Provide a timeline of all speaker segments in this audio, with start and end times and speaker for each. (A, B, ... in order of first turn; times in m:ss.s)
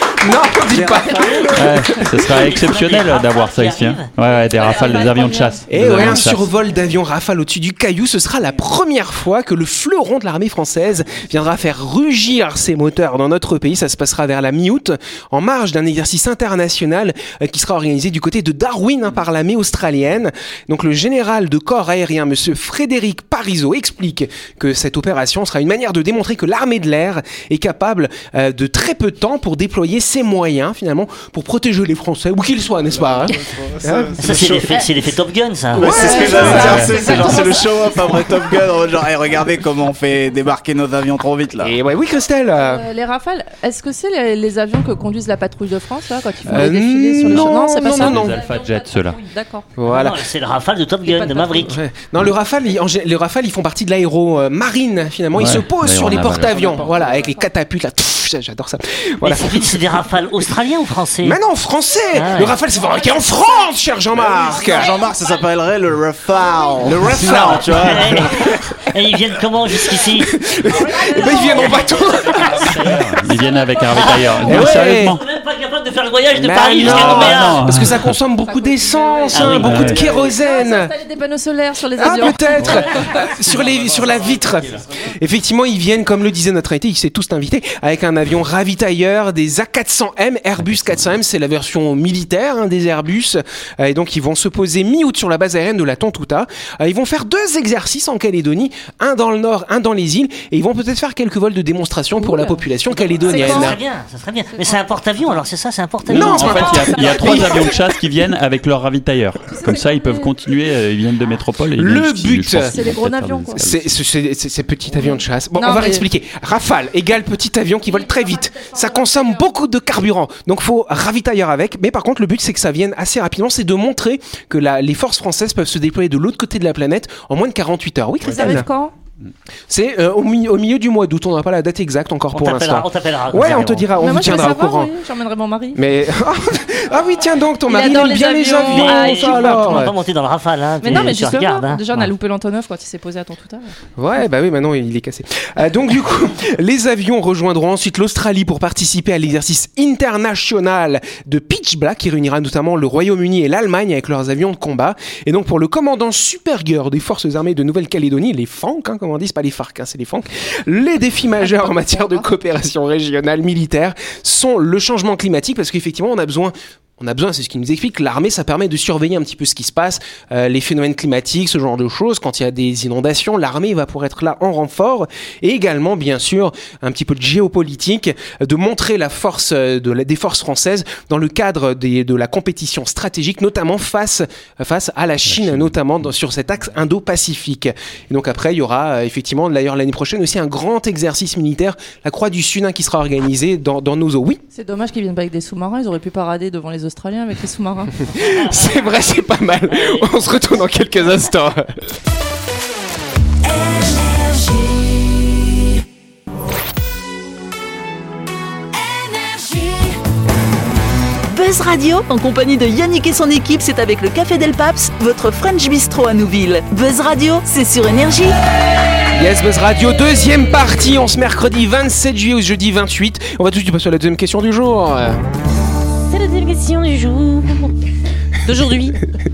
0:00.2-0:02.1 A
0:00.5-0:02.1 B
0:01.5-0:06.5 C
0:02.2-0:05.1 D
0:04.4-0:05.6 E
0:05.7-0:34.5 A
0:32.9-0:34.8 B
0:34.2-0:36.6 D
0:35.8-0:41.8 B
0:35.8-0:37.6 A
0:35.9-0:37.6 E
0:36.6-0:36.9 C
0:41.6-0:42.9 A
0:42.6-0:49.7 E
0:46.5-0:48.4 A
0:47.2-0:49.2 C
0:49.8-0:50.2 A
0:49.9-0:51.8 D
0:51.0-0:51.7 E
0:51.6-1:00.0 A
0:55.4-0:56.7 C
0:56.5-0:57.1 B
0:56.6-0:57.5 E
0:59.2-1:01.4 D
1:01.2-1:04.9 A
1:02.1-1:02.6 D
1:02.8-1:03.7 E
1:04.1-1:08.3 B
1:04.5-1:05.3 E
1:06.8-1:08.6 A
1:07.7-1:10.3 D
1:09.7-1:13.0 A
1:10.7-1:14.6 E
1:11.4-1:12.0 D
1:12.6-1:15.2 C
1:13.9-1:17.7 D
1:14.4-1:15.2 A
1:16.4-1:20.9 A
1:16.8-1:18.1 C
1:16.8-1:17.4 B
1:18.4-1:22.9 E
1:19.3-1:20.0 D
1:19.4-1:20.3 B
1:19.5-1:20.0 C
1:22.0-1:43.8 A
1:22.6-1:22.9 C
1:23.5-1:24.5 B
1:42.2-1:42.6 E
1:43.2-1:43.7 E
1:43.3-1:46.9 D
1:43.4-1:43.7 F
1:44.5-1:44.8 E
1:46.1-1:47.7 A
1:46.1-1:53.9 C
1:46.4-1:47.7 E
1:49.5-1:50.3 E
1:51.8-1:52.7 A
1:52.6-1:53.6 E
1:53.6-2:08.7 A
1:55.6-1:56.0 E
1:57.8-1:59.5 E
2:08.2-2:08.9 E
2:09.7-2:14.9 A
2:12.3-2:13.9 D
2:14.0-2:15.8 E
2:15.8-2:19.9 A
2:17.7-2:19.9 E
2:18.7-2:21.8 D
2:20.8-2:23.7 E
2:24.0-3:14.4 A
2:41.8-2:42.1 E
3:05.3-3:05.8 C
3:14.5-3:17.9 E
3:18.0-3:21.9 A
3:18.2-3:19.0 D
3:31.3-3:38.4 G
3:39.1-3:45.2 A
3:46.1-3:47.7 F
3:48.4-3:49.0 F